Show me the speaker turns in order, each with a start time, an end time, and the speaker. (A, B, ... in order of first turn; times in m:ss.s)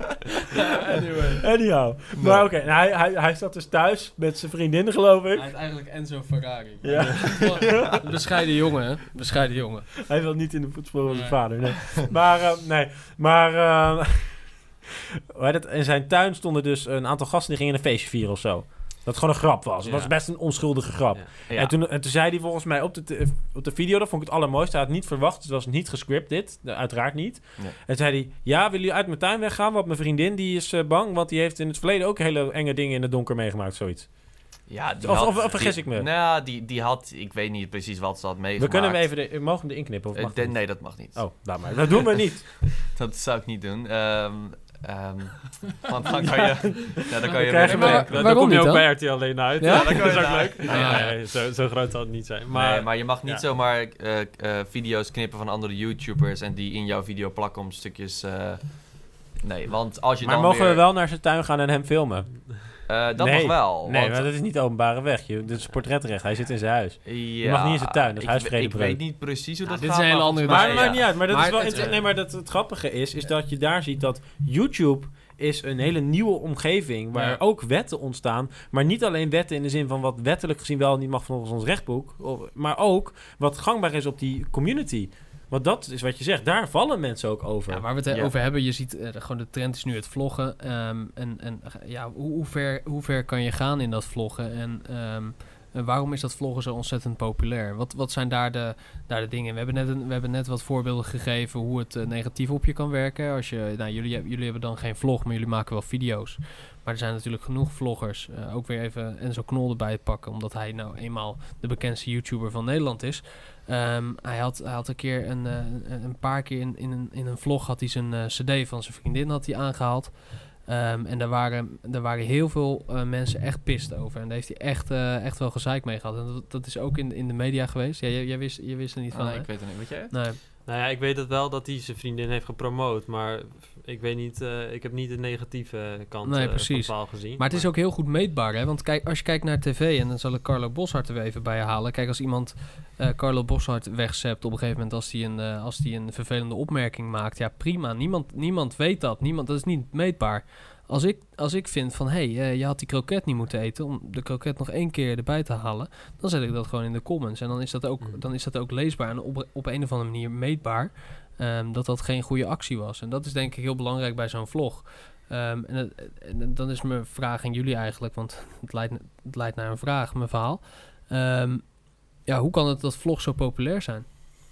0:00.6-0:01.5 A
0:01.4-0:05.5 B
0:02.2-0:02.5 C
0:05.3-0:10.0 A
0:06.8-0:08.1 B
0:07.4-0:08.0 C
0:10.1-0:14.7 B
0:11.1-0:12.0 A
0:15.4-0:36.1 B
0:19.8-0:20.6 D
0:21.5-0:21.7 C
0:34.7-0:39.3 C
0:38.6-0:42.8 B
0:40.1-0:41.9 C
0:42.8-0:48.3 C
0:46.7-0:48.2 B
0:47.2-0:51.2 A
0:47.6-0:53.5 D
0:49.6-0:51.0 C
0:52.5-1:00.8 C
1:00.2-1:09.0 B
1:02.9-1:04.3 C
1:07.0-1:11.2 C
1:09.6-1:12.0 A
1:10.5-1:27.9 B
1:17.1-1:17.4 A
1:27.7-2:10.4 A
2:09.1-2:10.2 C
2:10.6-2:17.7 D
2:16.2-2:54.1 A